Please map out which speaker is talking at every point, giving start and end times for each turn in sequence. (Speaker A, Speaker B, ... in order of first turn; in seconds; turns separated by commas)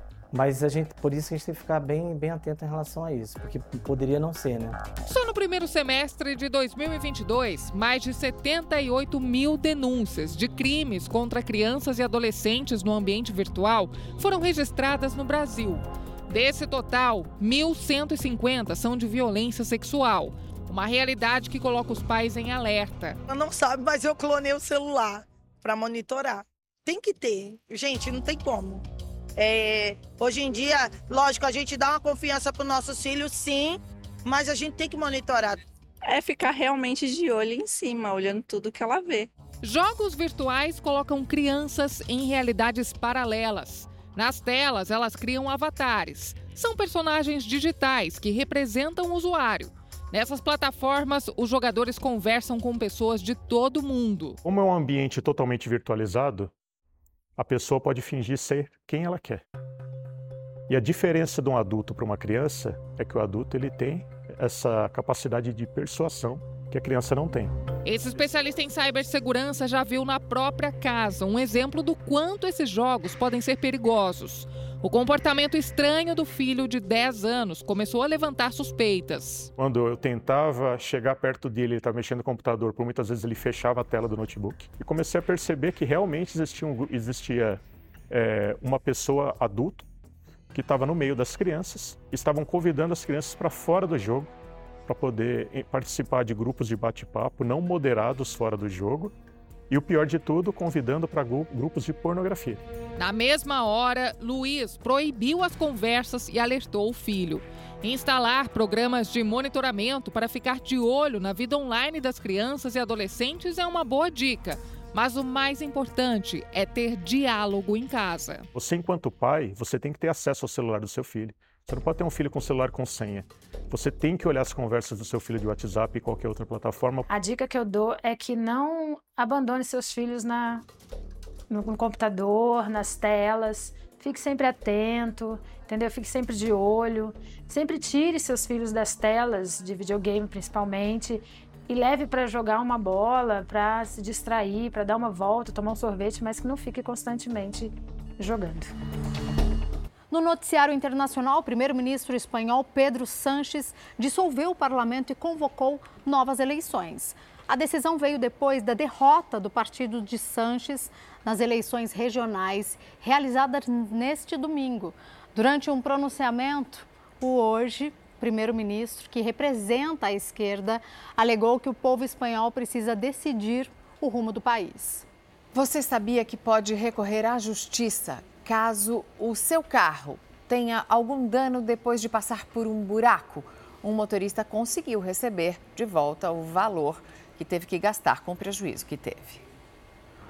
Speaker A: 0.3-4.8, Speaker B: 5.0-23.2, Speaker C: 23.3-35.6, Speaker D: 36.0-39.3, Speaker B: 39.6-54.4, Speaker E: 54.4-56.5, Speaker E: 57.4-59.4, Speaker E: 60.7-67.5, Speaker B: 67.8-79.5, Speaker E: 79.6-89.8, Speaker E: 90.5-94.3, Speaker E: 94.8-99.1, Speaker E: 99.7-102.6, Speaker B: 103.0-118.5, Speaker E: 118.5-127.0, Speaker F: 127.1-130.6, Speaker F: 131.5-148.7, Speaker G: 150.1-175.1, Speaker H: 175.5-189.4